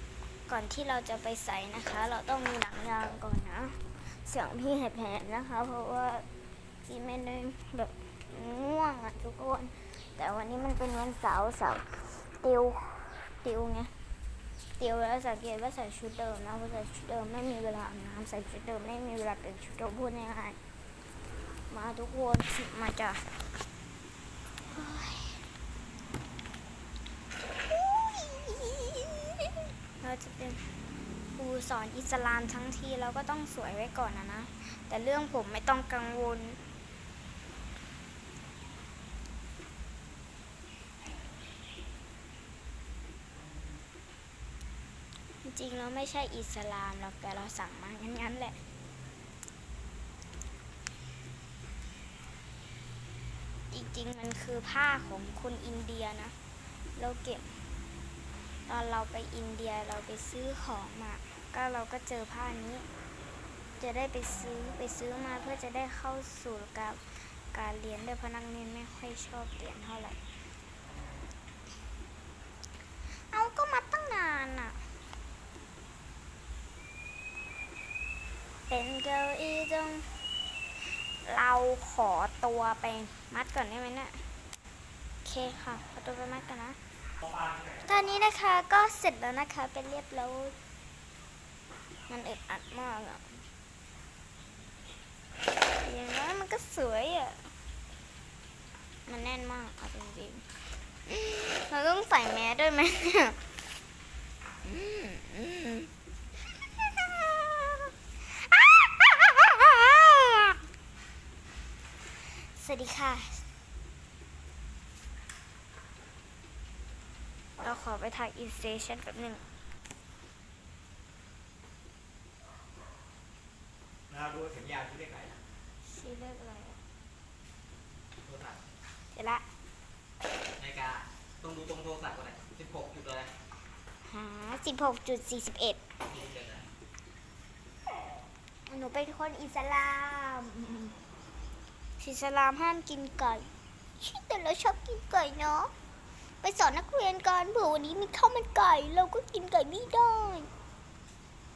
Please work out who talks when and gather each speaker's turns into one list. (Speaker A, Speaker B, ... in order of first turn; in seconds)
Speaker A: 0.5-6.2, 6.8-13.9, 14.8-20.6, 21.7-23.2, 24.7-25.5, 27.7-30.6, 31.3-36.6, 45.4-48.6, 53.7-56.3, 57.0-57.6, 58.7-62.9, 63.8-70.2, 73.3-74.8, 78.7-80.1, 80.8-84.2, 85.2-86.8, 87.7-90.5, 92.1-93.4, 95.8-97.5, 99.1-103.4, 104.6-105.9, 106.6-110.6, 112.4-113.4, 117.6-119.4, 125.8-126.8, 129.1-129.4, 134.0-135.8, 138.7-140.9, 142.0-145.7, 146.4-150.5
Speaker B: 124.1-125.4, 128.2-128.6, 130.6-133.3, 136.1-136.6